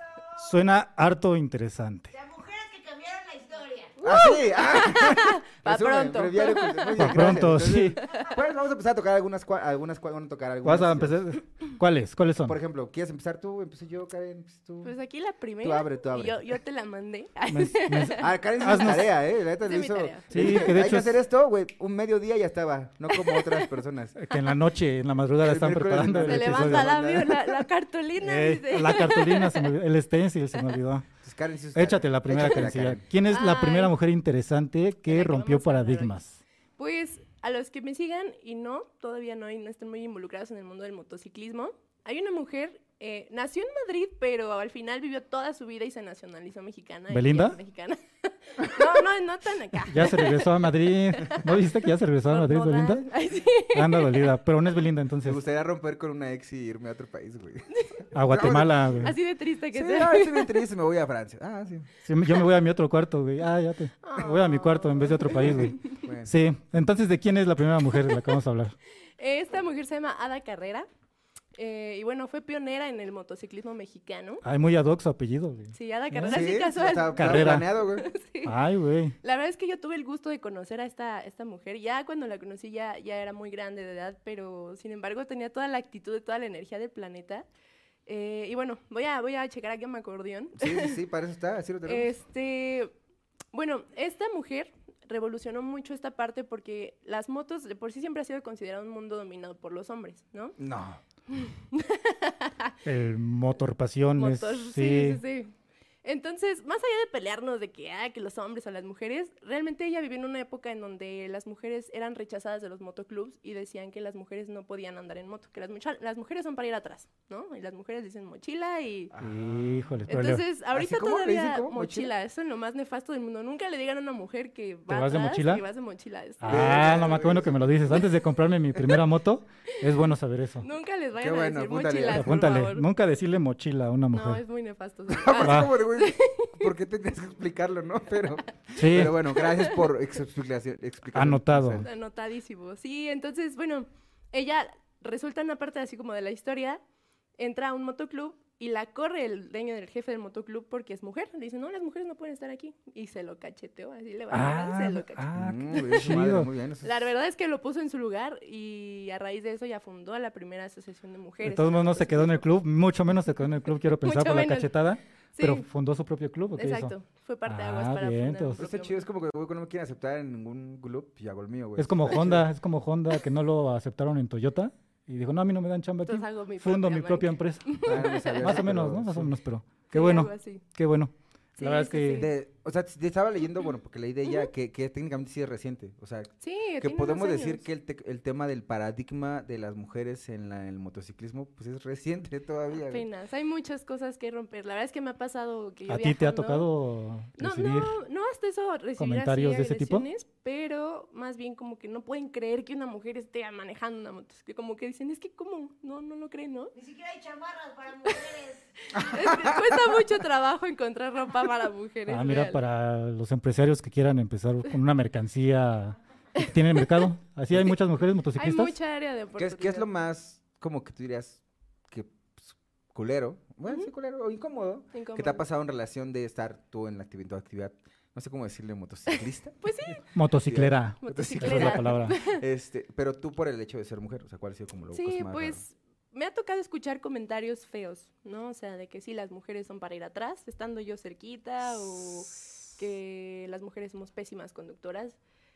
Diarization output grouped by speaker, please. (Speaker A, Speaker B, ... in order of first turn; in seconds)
Speaker A: 0.4-2.1, 7.0-8.0, 10.6-12.6, 17.5-19.1, 20.3-21.2, 24.2-26.9, 28.2-31.1, 31.8-36.4, 47.1-47.6, 49.9-53.1, 53.7-55.4, 58.1-59.2, 62.1-68.8, 74.4-76.5, 77.2-77.7, 78.5-79.2, 102.8-105.2, 119.2-120.4, 124.9-125.6, 126.4-130.7, 132.1-134.4, 135.4-135.7, 138.8-139.2, 141.1-141.8, 154.3-156.5, 161.4-166.9, 167.5-168.6, 171.8-182.3, 195.9-198.0, 199.0-200.1, 212.1-218.8, 230.1-232.2
Speaker B: 2.1-4.0, 206.8-208.7
Speaker C: 4.0-7.2, 8.0-8.3, 14.8-18.9, 19.6-20.7, 23.1-23.8, 26.3-29.7, 33.3-33.9, 35.1-36.2, 36.8-50.6, 52.3-54.4, 57.7-58.0, 59.0-60.6, 64.0-66.0, 68.1-68.4, 69.2-70.9, 71.6-74.4, 75.7-78.5, 79.2-87.5, 88.1-91.0, 91.9-92.9, 93.5-100.6, 101.3-102.8, 104.2-105.5, 106.0-119.1, 120.1-127.1, 130.6-132.9, 134.1-136.7, 139.2-139.8, 141.8-146.8, 147.4-155.3, 156.8-162.4, 164.0-164.8, 165.4-165.7, 166.6-169.0, 176.1-178.6, 179.9-180.6, 181.6-182.3, 186.4-187.6, 192.8-196.7, 197.4-206.7, 208.9-212.6, 216.4-217.1, 218.4-219.9, 224.9-225.4, 229.6-230.1, 231.0-232.4, 234.9-245.2
Speaker D: 4.0-11.2, 12.5-14.9, 15.6-16.4, 18.2-24.2, 25.4-27.6, 31.2-33.0, 55.2-59.1, 59.7-61.9, 66.0-66.3, 76.3-78.1, 90.6-92.1, 100.6-101.0, 119.1-120.1, 120.7-122.1, 126.5-127.7, 131.2-132.4, 135.1-141.9, 155.3-157.1, 168.6-172.5, 177.8-179.4, 182.2-193.1, 209.0-209.7, 219.4-229.9, 230.4-235.6